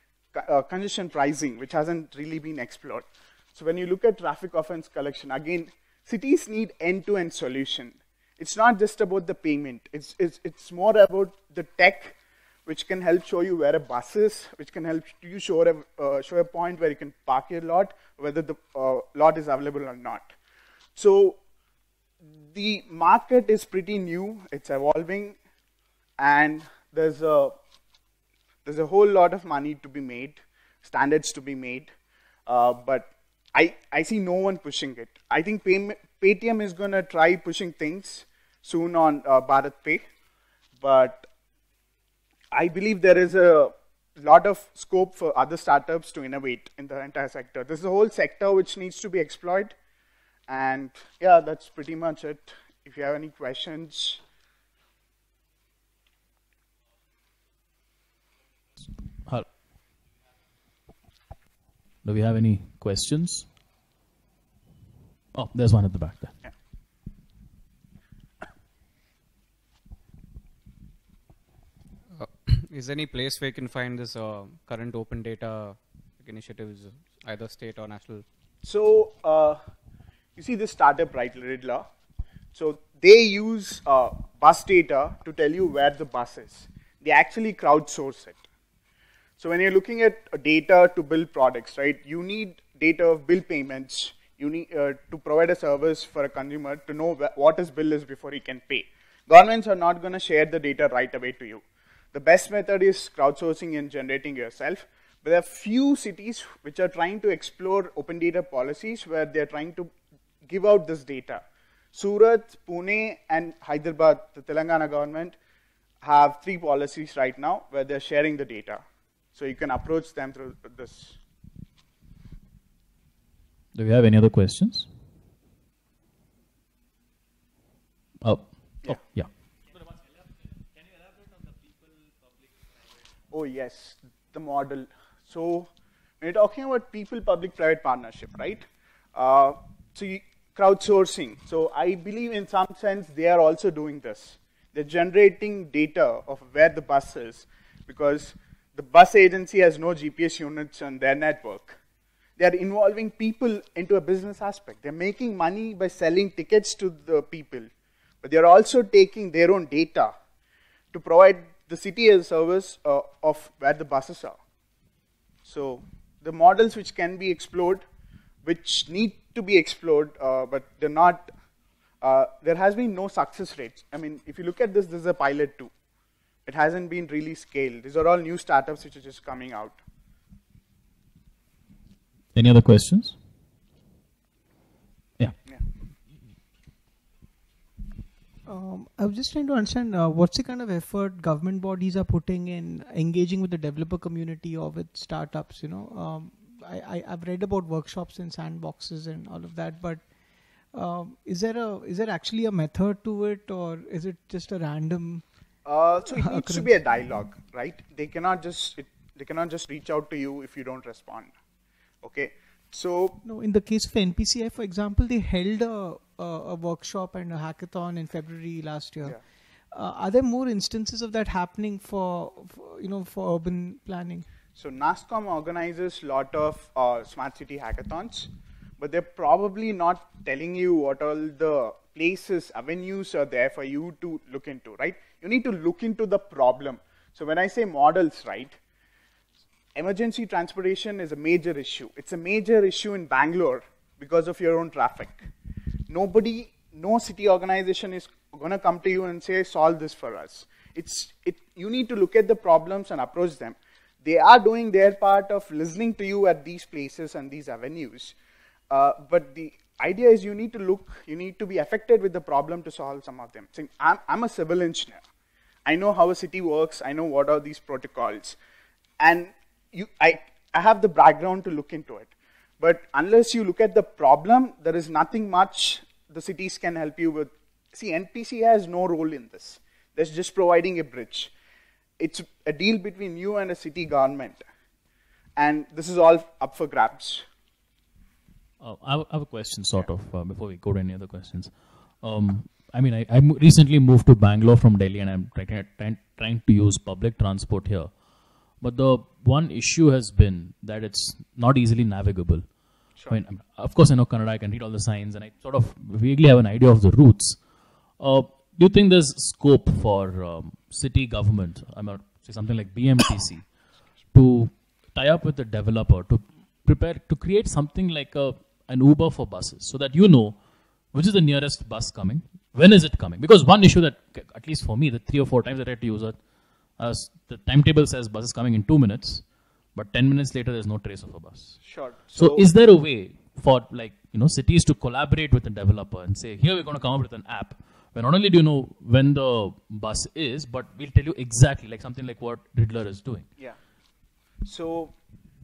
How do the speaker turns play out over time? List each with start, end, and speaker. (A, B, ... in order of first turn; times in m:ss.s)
0:00.3-0:20.3 A
0:21.0-0:21.4 A
0:22.5-0:25.4 A
0:26.2-0:27.5 A
0:28.6-0:31.9 A
0:32.5-0:40.0 A
0:40.8-0:41.3 A
0:42.5-0:49.7 A
0:50.5-0:54.2 A
1:02.0-1:03.4 B
1:05.3-1:06.4 B
1:12.1-1:18.2 C
1:18.6-1:19.6 A
1:20.4-1:21.8 A
1:22.5-1:28.4 A
1:29.4-1:49.9 A
1:50.4-1:55.4 A
1:56.0-1:58.8 A
1:59.3-2:01.2 A
2:03.7-2:04.9 B
2:08.2-2:09.3 B
2:13.3-2:15.7 A
2:16.2-2:31.8 A
2:32.4-2:37.7 A
2:38.2-2:40.1 A
2:40.9-2:44.4 A
2:45.4-2:47.8 A
2:48.4-2:51.3 A
2:52.0-2:55.7 A
2:56.4-2:59.8 A
3:02.3-3:03.2 B
3:08.4-3:20.0 D
3:20.7-3:25.2 D
3:25.6-3:31.3 A
3:26.1-3:26.8 D
3:32.0-3:33.2 A
3:33.2-3:39.2 D
3:39.7-3:44.2 D
3:44.5-3:58.6 A
3:59.7-4:05.3 A
4:05.9-4:18.1 A
4:18.7-4:25.0 A
4:25.6-4:28.4 A
4:29.0-4:41.3 A
4:42.0-4:44.4 A
4:45.4-4:47.2 A
4:48.6-4:57.9 B
4:58.6-5:07.4 B
5:08.0-5:13.5 B
5:14.1-5:20.4 B
5:20.9-5:26.2 B
5:26.8-5:43.3 B
5:31.6-5:32.4 A
5:44.4-5:44.9 A